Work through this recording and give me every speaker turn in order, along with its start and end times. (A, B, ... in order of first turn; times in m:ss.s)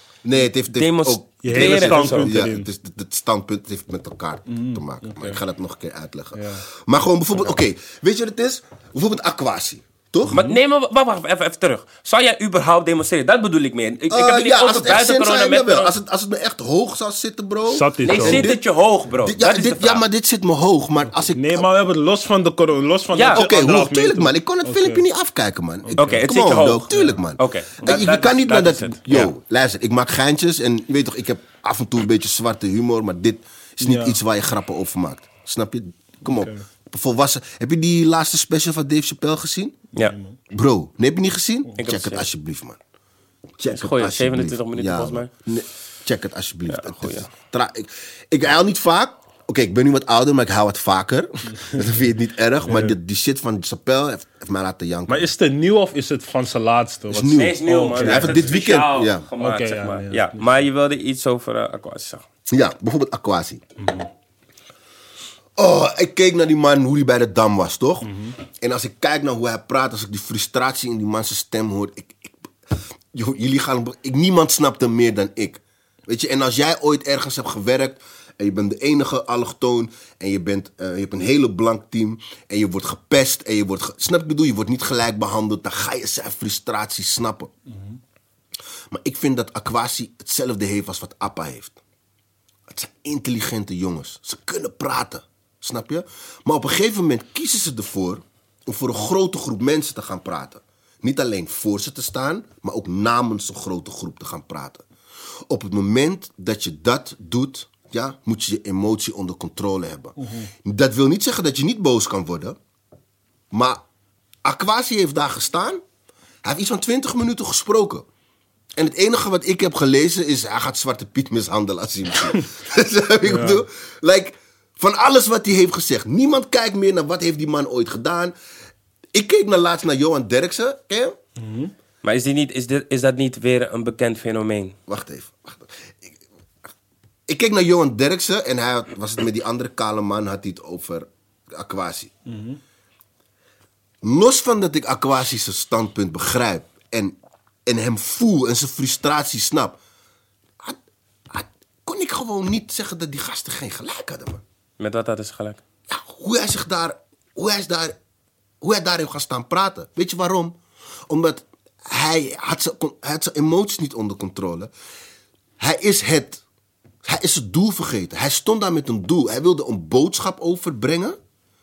0:00.2-0:10.4 A
0:00.7-0:02.3 B
0:01.4-0:02.7 C
0:04.5-0:05.4 C
0:06.4-0:06.6 C
0:10.3-0:10.6 C
0:10.3-0:15.9 B
0:14.1-0:18.6 A
0:17.7-0:18.5 C
0:18.0-0:20.0 B
0:19.2-0:21.7 A
0:21.3-0:25.0 C
0:23.1-0:23.4 B
0:23.3-0:39.8 A
0:25.8-0:26.3 C
0:26.0-0:29.3 B
0:26.9-0:27.2 C
0:33.8-0:34.2 C
0:36.2-0:36.6 C
0:40.0-0:40.4 C
0:40.5-0:42.8 A
0:41.8-0:42.2 B
0:43.6-0:55.2 A
0:43.7-0:45.3 B
0:46.7-0:47.3 B
0:52.7-0:52.9 C
0:55.1-0:58.6 C
0:57.1-0:59.2 A
0:57.3-1:02.2 B
0:59.4-1:00.5 C
1:02.5-1:03.6 A
1:03.8-1:04.1 C
1:05.6-1:27.5 A
1:08.0-1:08.3 C
1:28.9-1:31.8 A
1:32.7-1:44.8 A
1:45.5-1:52.6 A
1:50.2-1:50.5 C
1:53.5-1:53.8 A
1:54.4-1:55.8 A
1:56.4-1:58.0 A
1:58.8-2:08.3 A
2:03.2-2:03.6 C
2:09.1-2:11.1 A
2:11.4-2:11.7 C
2:12.0-2:14.8 B
2:14.9-2:16.2 A
2:17.3-2:22.1 A
2:22.3-2:22.6 C
2:24.0-2:29.8 A
2:31.3-2:34.4 A
2:34.8-2:35.6 B
2:35.9-2:37.9 A
2:38.6-2:40.5 A
2:41.1-2:44.7 A
2:45.6-2:46.4 A
2:47.0-2:51.2 A